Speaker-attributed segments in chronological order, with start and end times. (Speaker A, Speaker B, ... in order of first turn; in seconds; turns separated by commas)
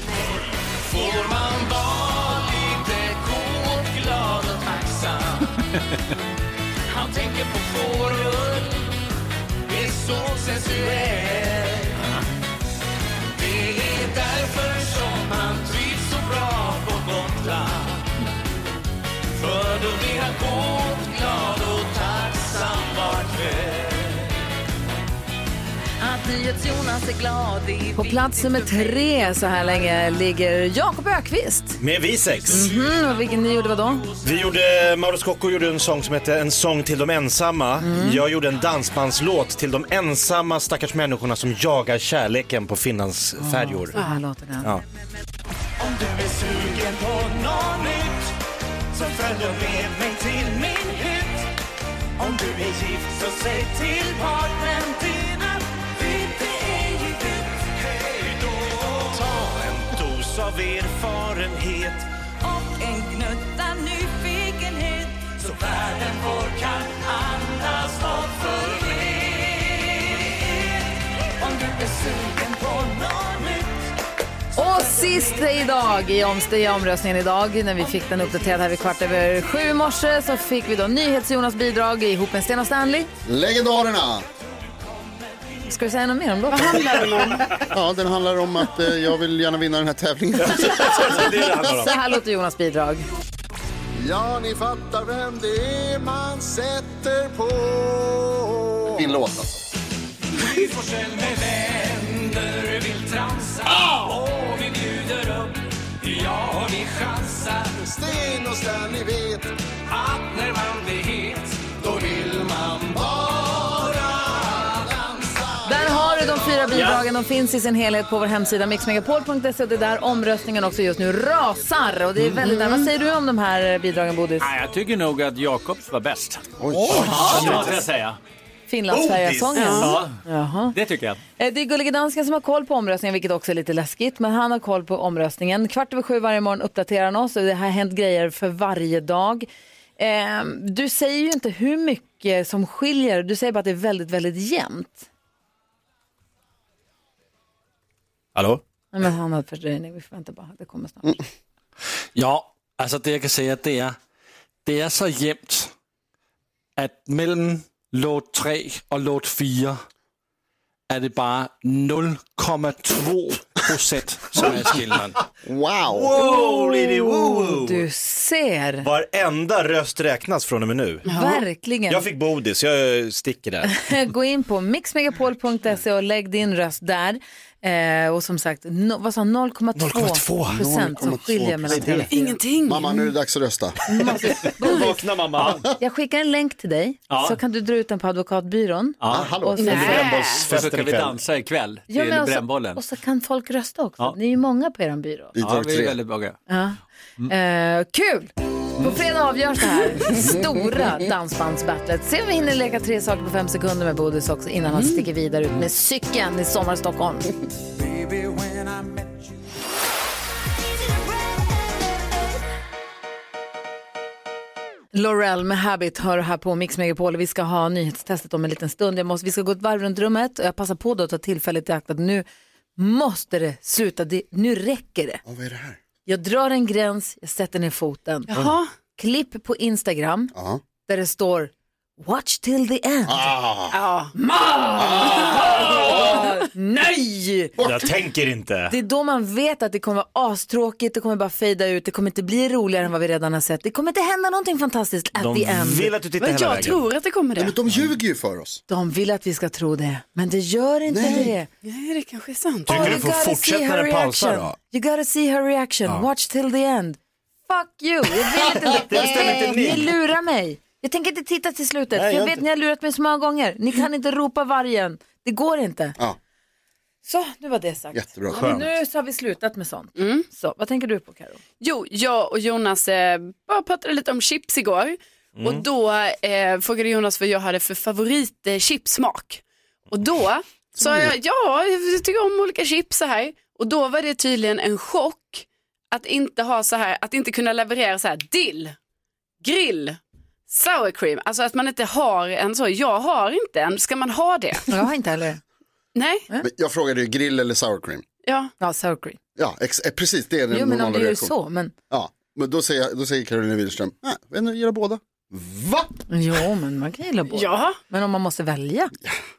Speaker A: 0.7-5.5, Speaker A: 6.9-8.9, Speaker A: 9.7-12.0, Speaker A: 13.3-18.1, Speaker A: 19.4-24.3, Speaker A: 26.0-29.1, Speaker B: 27.9-31.8, Speaker C: 31.8-32.7, Speaker B: 32.5-34.1, Speaker A: 32.5-34.4, Speaker C: 34.2-44.0, Speaker B: 37.8-38.2, Speaker B: 43.4-44.7, Speaker A: 45.8-48.2, Speaker C: 46.5-46.8, Speaker A: 49.0-51.4, Speaker C: 49.2-50.5, Speaker A: 52.2-59.2, Speaker C: 52.5-53.0, Speaker C: 59.1-62.0, Speaker A: 62.4-70.7, Speaker A: 71.4-73.9, Speaker B: 74.5-83.1, Speaker A: 74.7-75.5, Speaker D: 83.2-84.2, Speaker B: 85.7-87.1, Speaker E: 86.5-87.5, Speaker D: 87.7-91.8, Speaker C: 90.4-91.9, Speaker B: 91.8-93.0, Speaker D: 94.0-99.7, Speaker A: 100.3-107.8, Speaker D: 107.8-109.5, Speaker A: 109.9-114.9, Speaker B: 115.6-124.5, Speaker F: 116.7-117.0, Speaker E: 122.4-122.9, Speaker F: 124.4-128.2, Speaker D: 126.6-127.6, Speaker C: 126.7-127.8, Speaker B: 128.7-130.8, Speaker C: 128.9-129.9, Speaker E: 129.5-129.9, Speaker F: 129.8-131.2, Speaker B: 131.4-139.5, Speaker B: 140.0-145.1, Speaker B: 148.9-151.2, Speaker G: 152.2-154.0, Speaker G: 154.6-155.7, Speaker G: 156.8-159.8, Speaker G: 160.9-165.2, Speaker D: 165.4-166.1, Speaker C: 165.9-167.8, Speaker B: 166.1-168.8, Speaker C: 168.8-171.1, Speaker E: 171.1-171.4, Speaker B: 171.1-172.1, Speaker C: 171.9-173.8, Speaker B: 173.7-182.4, Speaker C: 179.7-180.8, Speaker D: 180.5-182.1, Speaker C: 181.6-182.1, Speaker E: 182.1-183.0, Speaker D: 182.6-184.5, Speaker B: 183.9-185.0, Speaker C: 184.5-185.7, Speaker B: 185.8-190.1, Speaker F: 187.1-187.4, Speaker F: 189.0-189.3, Speaker D: 189.1-190.1, Speaker E: 189.6-190.5, Speaker C: 189.6-191.2, Speaker F: 190.4-192.8, Speaker B: 191.9-195.3, Speaker D: 195.3-196.0, Speaker F: 195.4-196.4, Speaker B: 196.5-207.3, Speaker E: 204.8-205.0, Speaker B: 214.9-222.2, Speaker B: 222.8-225.2, Speaker D: 225.2-225.8, Speaker B: 226.1-228.3, Speaker E: 228.3-228.7, Speaker B: 229.0-230.3, Speaker D: 230.3-230.6, Speaker B: 230.9-233.3, Speaker D: 233.1-233.8, Speaker E: 233.7-234.1, Speaker B: 234.2-237.6, Speaker D: 234.8-236.3, Speaker D: 237.6-237.9, Speaker C: 237.6-238.7, Speaker B: 238.7-245.9, Speaker C: 245.2-246.8, Speaker E: 246.2-247.6, Speaker D: 247.3-248.6, Speaker B: 248.7-251.5, Speaker D: 250.9-251.3, Speaker E: 251.6-253.0, Speaker C: 252.7-254.6, Speaker B: 252.7-266.0, Speaker C: 258.6-259.9, Speaker C: 261.9-262.4, Speaker B: 267.0-271.4, Speaker D: 267.9-268.6, Speaker C: 268.4-268.6, Speaker E: 270.0-270.2, Speaker E: 271.6-288.8, Speaker C: 275.4-275.6, Speaker D: 280.8-281.1, Speaker E: 289.4-294.7, Speaker B: 294.7-295.4, Speaker E: 295.9-296.2, Speaker D: 296.4-298.0, Speaker E: 298.2-298.5, Speaker B: 298.6-299.2, Speaker D: 299.4-301.3, Speaker B: 300.5-301.7, Speaker D: 301.9-306.0, Speaker B: 306.1-308.9, Speaker E: 307.3-307.8